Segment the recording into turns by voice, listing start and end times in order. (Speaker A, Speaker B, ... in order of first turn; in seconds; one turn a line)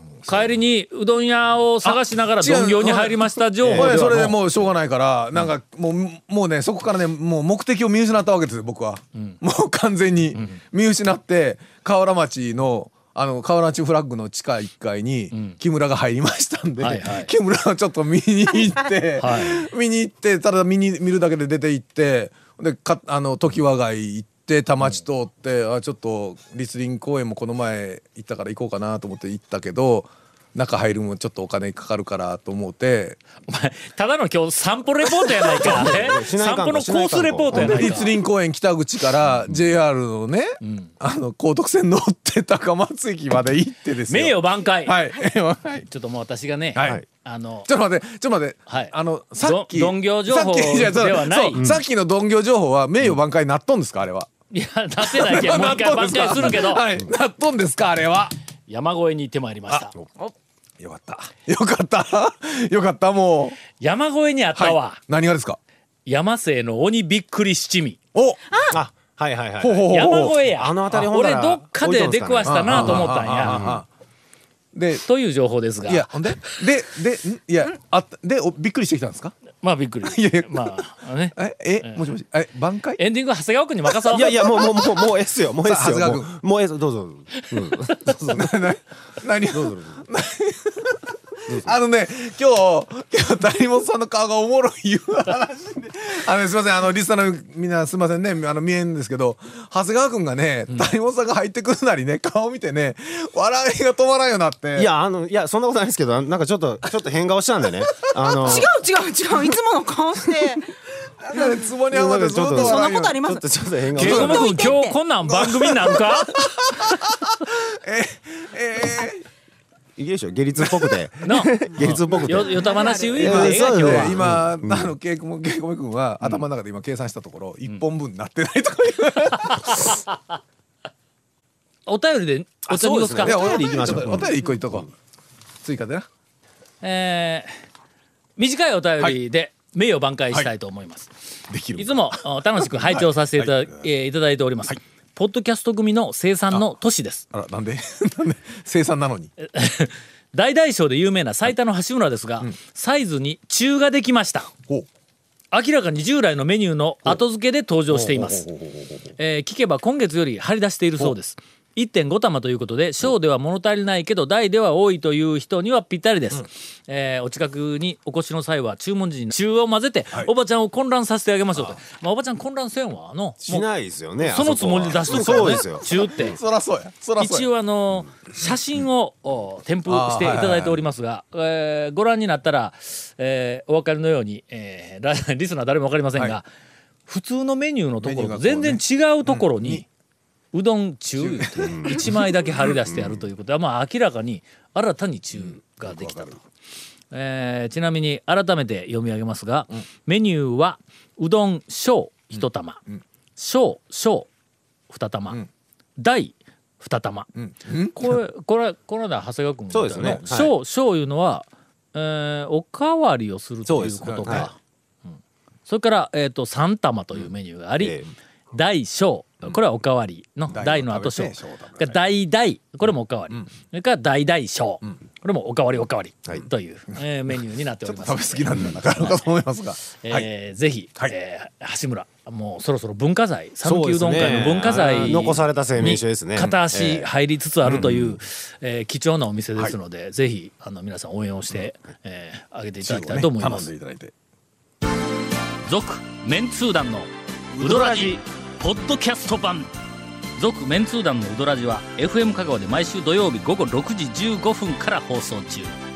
Speaker A: 0.3-4.4
Speaker B: 1.8-33.2
Speaker C: 3.6-4.1
Speaker A: 10.3-10.6
Speaker A: 15.3-15.6
Speaker A: 16.8-17.3
Speaker A: 19.2-19.6
Speaker A: 33.5-38.1
Speaker C: 35.5-38.0
Speaker B: 37.5-45.9
Speaker A: 40.6-40.9
Speaker A: 44.1-45.0
Speaker A: 45.9-47.7
Speaker B: 46.8-47.0
Speaker B: 47.7-54.3
Speaker A: 48.7-51.6
Speaker C: 51.6-51.8
Speaker A: 54.5-56.9
Speaker B: 55.0-58.4
Speaker A: 58.7-59.9
Speaker B: 60.8-63.6
Speaker A: 63.8-65.0
Speaker B: 64.5-65.6
Speaker A: 66.1-68.0
Speaker B: 68.1-68.4
Speaker C: 68.7-73.8
Speaker B: 69.6-70.4
Speaker A: 69.9-73.6
Speaker B: 72.5-73.9
Speaker B: 74.7-75.0
Speaker A: 75.0-76.2
Speaker B: 75.8-79.3
Speaker A: 79.6-82.1
Speaker B: 80.0-80.8
Speaker B: 81.3-83.0
Speaker A: 83.0-84.7
Speaker C: 84.1-88.5
Speaker B: 85.6-86.3
Speaker B: 88.2-104.9
Speaker C: 89.5-90.0
Speaker C: 104.8-108.7
Speaker D: 108.4-110.7
Speaker B: 111.2-113.4
Speaker D: 111.3-111.7
Speaker C: 111.9-114.6
Speaker D: 112.5-113.4
Speaker A: 114.0-116.4
Speaker B: 114.0-114.4
Speaker D: 114.1-115.0
Speaker B: 115.3-119.2
Speaker C: 120.0-124.9
Speaker B: 120.6-120.9
Speaker A: 121.2-124.2
Speaker D: 122.4-123.5
Speaker B: 123.2-129.9
Speaker A: 129.3-130.0
Speaker A: 131.9-134.2
Speaker C: 132.7-134.3
Speaker B: 133.2-134.9
Speaker B: 135.6-136.1
Speaker A: 136.8-137.6
Speaker A: 138.4-141.1
Speaker B: 141.5-143.8
Speaker A: 141.8-147.3
Speaker B: 147.3-149.3
Speaker A: 149.4-154.5
Speaker A: 155.5-158.5
Speaker B: 157.9-159.1
Speaker A: 159.2-173.4
Speaker C: 173.4-176.1
Speaker A: 174.2-176.4
Speaker B: 175.1-177.5
Speaker A: 177.2-186.5
Speaker B: 179.9-180.8
Speaker A: 187.1-189.9
Speaker B: 188.0-189.8
Speaker A: 190.5-196.4
Speaker B: 191.2-192.0
Speaker C: 191.6-193.2
Speaker B: 195.4-196.4
Speaker A: 197.1-202.8
Speaker B: 202.3-203.0
Speaker A: 203.4-204.3
Speaker A: 204.9-205.4
Speaker A: 206.0-207.3
Speaker B: 207.3-208.2
Speaker A: 207.9-214.6
Speaker C: 209.7-210.5
Speaker B: 209.9-210.2
Speaker C: 213.7-214.5
Speaker B: 213.7-214.5
Speaker A: 215.7-218.0
Speaker C: 217.8-218.1
Speaker A: 218.5-229.2
Speaker B: 220.5-222.0
Speaker B: 227.8-230.3
Speaker A: 230.0-243.7
Speaker C: 233.6-237.1
Speaker B: 234.7-235.2
Speaker B: 237.7-238.2
Speaker B: 242.8-244.1
Speaker A: 245.7-249.7
Speaker B: 247.6-248.2
Speaker A: 250.4-255.7